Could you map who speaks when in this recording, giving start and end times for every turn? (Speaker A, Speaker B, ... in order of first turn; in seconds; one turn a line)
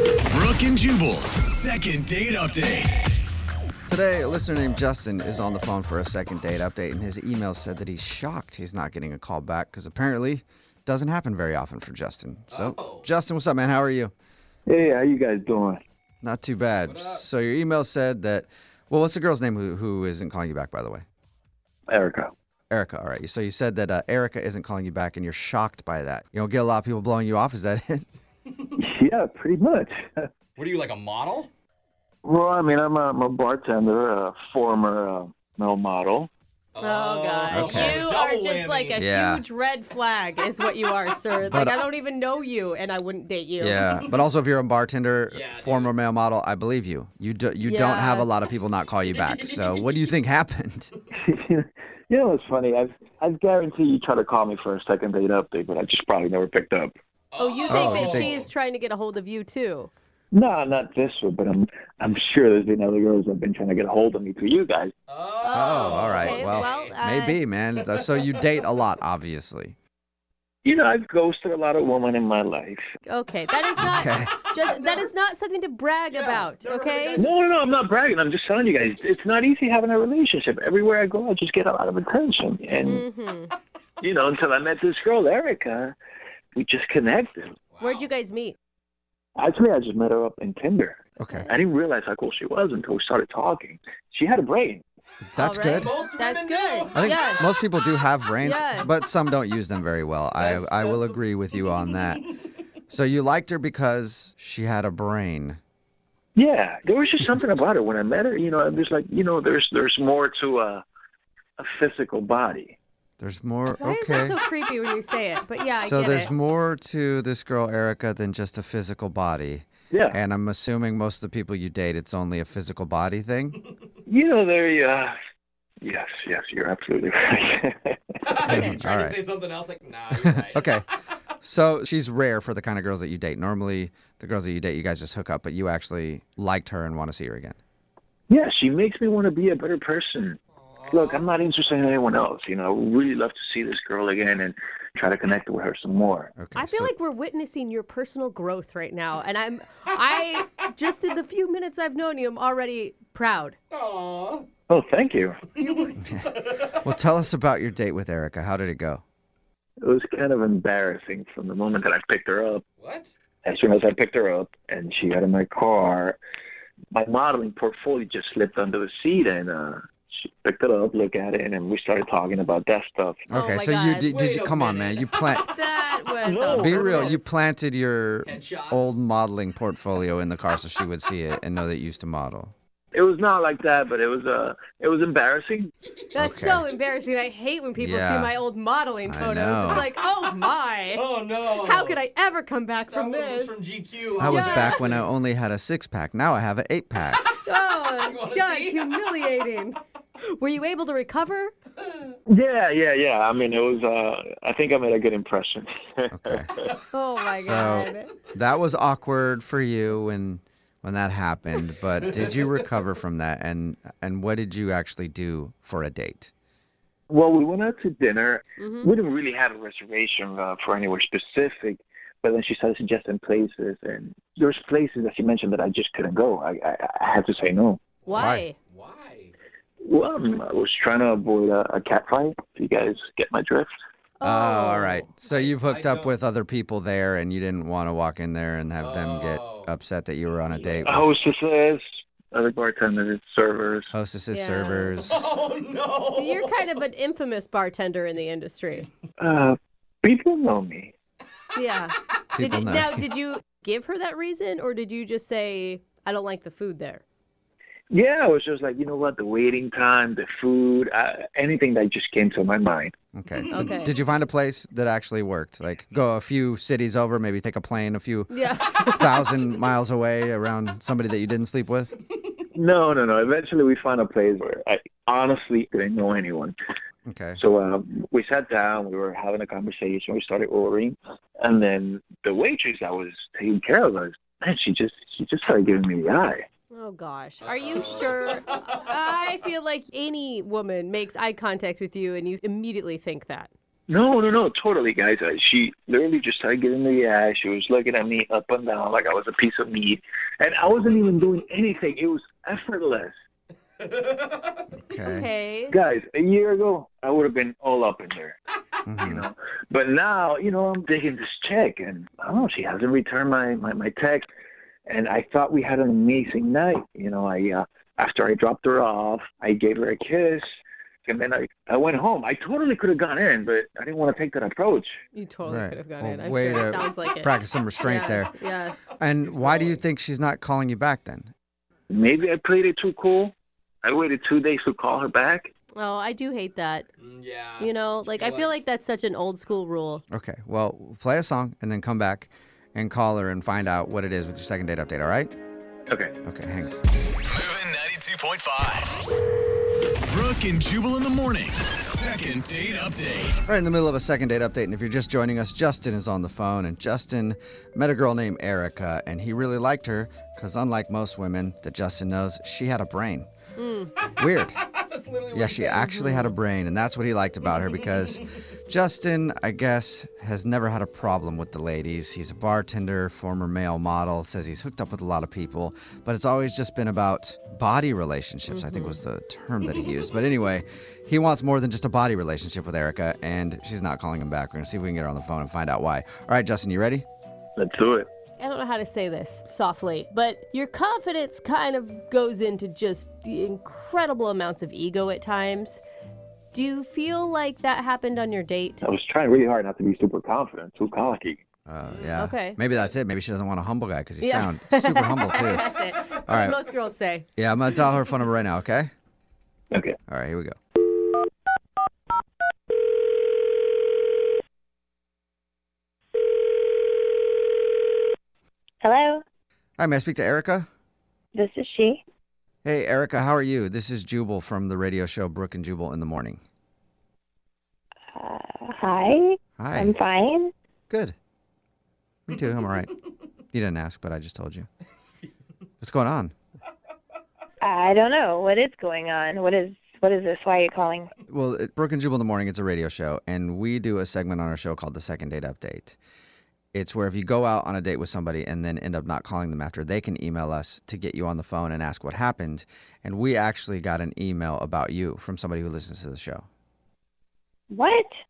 Speaker A: 0.3-3.1
Speaker B: 3.9-14.1
Speaker C: 12.5-13.1
Speaker D: 14.7-15.8
Speaker B: 16.2-21.0
Speaker C: 16.8-17.2
Speaker D: 21.9-22.3
Speaker B: 22.7-28.1
Speaker D: 28.8-30.3
Speaker C: 30.6-31.5
Speaker D: 32.2-36.3
Speaker C: 36.7-39.0
Speaker E: 36.8-43.8
Speaker B: 37.5-38.0
Speaker B: 39.0-39.4
Speaker B: 41.4-41.8
Speaker B: 43.6-50.9
Speaker C: 45.3-45.9
Speaker E: 47.6-48.3
Speaker C: 49.1-49.9
Speaker D: 51.1-56.9
Speaker C: 57.3-58.5
Speaker E: 57.4-59.9
Speaker B: 57.7-58.3
Speaker D: 60.3-64.9
Speaker C: 65.1-67.0
Speaker E: 65.4-67.4
Speaker B: 65.5-69.8
Speaker C: 67.8-68.4
Speaker D: 70.6-72.8
Speaker E: 73.0-77.3
Speaker B: 73.8-74.3
Speaker C: 74.6-75.0
Speaker C: 76.1-77.4
Speaker D: 77.2-83.0
Speaker E: 82.8-83.5
Speaker D: 84.0-85.9
Speaker D: 86.5-87.5
Speaker C: 87.7-88.1
Speaker E: 87.8-88.5
Speaker D: 89.3-94.8
Speaker B: 91.2-91.5
Speaker B: 95.3-95.9
Speaker E: 95.3-97.4
Speaker C: 95.8-97.1
Speaker B: 96.9-102.3
Speaker E: 98.4-98.9
Speaker C: 100.3-102.2
Speaker B: 102.9-105.6
Speaker D: 106.3-110.8
Speaker D: 111.6-112.8
Speaker B: 113.2-114.3
Speaker E: 113.8-116.3
Speaker B: 115.8-123.6
Speaker D: 119.9-120.2
Speaker D: 124.0-125.2
Speaker D: 125.8-128.2
Speaker C: 128.2-130.8
Speaker B: 128.5-129.2
Speaker E: 128.5-128.8
Speaker B: 130.2-130.8
Speaker B: 131.4-137.6
Speaker D: 138.3-140.4
Speaker C: 140.7-141.2
Speaker D: 140.9-146.3
Speaker B: 146.4-146.9
Speaker E: 146.5-153.6
Speaker C: 153.7-154.5
Speaker D: 154.7-155.4
Speaker E: 155.6-156.0
Speaker C: 155.6-156.8
Speaker B: 156.8-159.0
Speaker D: 159.8-162.6
Speaker C: 162.8-163.1
Speaker D: 163.4-166.2
Speaker D: 166.9-173.2
Speaker B: 173.3-175.5
Speaker E: 173.3-174.1
Speaker C: 174.1-175.1
Speaker E: 175.3-177.2
Speaker D: 176.2-177.1
Speaker B: 176.5-182.5
Speaker C: 176.8-177.2
Speaker C: 178.2-179.0
Speaker D: 182.9-185.7
Speaker E: 186.1-193.6
Speaker B: 186.2-186.7
Speaker B: 187.8-188.3
Speaker B: 189.0-189.9
Speaker C: 190.9-192.0
Speaker C: 192.9-195.1
Speaker B: 194.2-197.2
Speaker E: 194.2-195.0
Speaker E: 197.4-201.5
Speaker C: 198.1-198.9
Speaker D: 202.3-206.7
Speaker B: 206.1-206.5
Speaker E: 206.9-208.1
Speaker B: 207.4-216.3
Speaker C: 212.0-212.6
Speaker D: 217.1-227.8
Speaker E: 218.6-218.9
Speaker C: 228.0-229.3
Speaker E: 228.1-228.6
Speaker B: 228.1-228.4
Speaker D: 229.8-233.7
Speaker E: 234.2-235.1
Speaker B: 234.2-241.0
Speaker C: 235.3-236.1
Speaker C: 238.8-239.7
Speaker D: 240.6-243.9
Speaker B: 243.9-245.2
Speaker E: 244.3-245.0
Speaker C: 245.1-246.6
Speaker E: 246.1-248.9
Speaker D: 249.2-250.9
Speaker E: 251.5-257.0
Speaker B: 252.3-253.1
Speaker D: 257.9-262.9
Speaker B: 263.1-271.9
Speaker E: 263.5-263.9
Speaker E: 268.3-269.2
Speaker D: 272.5-276.5
Speaker B: 277.1-277.4
Speaker D: 277.4-286.4
Speaker E: 286.7-293.5
Speaker C: 287.4-288.6
Speaker D: 293.9-303.1
Speaker C: 303.8-304.7
Speaker B: 304.8-305.3
Speaker E: 305.0-305.8
Speaker D: 305.7-308.4
Speaker B: 308.9-309.2
Speaker D: 309.0-314.3
Speaker D: 314.9-320.5
Speaker D: 321.0-325.0
Speaker E: 325.1-328.8
Speaker B: 325.4-328.3
Speaker B: 329.0-331.3
Speaker C: 329.2-329.8
Speaker D: 331.9-335.5
Speaker E: 335.8-336.9
Speaker C: 337.0-338.5
Speaker E: 337.6-340.0
Speaker B: 340.1-345.3
Speaker D: 345.9-346.1
Speaker B: 346.2-346.7
Speaker A: 347.2-349.0
Speaker A: 350.1-353.4
Speaker B: 353.5-363.3
Speaker E: 363.6-363.9
Speaker B: 364.2-364.6
Speaker C: 364.6-366.1
Speaker B: 365.3-387.0
Speaker C: 367.8-368.2
Speaker E: 378.5-379.0
Speaker D: 387.6-388.1
Speaker E: 388.4-395.8
Speaker E: 396.5-398.8
Speaker D: 398.8-401.4
Speaker B: 401.6-405.6
Speaker C: 401.8-402.2
Speaker E: 402.2-402.6
Speaker E: 404.2-407.2
Speaker B: 406.2-406.6
Speaker B: 407.4-408.9
Speaker D: 409.7-410.0
Speaker B: 410.1-410.5
Speaker F: 418.8-419.2
Speaker B: 419.8-420.7
Speaker F: 421.3-422.0
Speaker B: 422.6-426.4
Speaker F: 428.1-430.5
Speaker B: 429.6-429.9
Speaker B: 432.3-432.9
Speaker B: 433.5-434.7
Speaker B: 435.8-436.3
Speaker F: 437.6-441.1
Speaker B: 441.3-446.0
Speaker B: 446.7-456.4
Speaker F: 457.7-458.1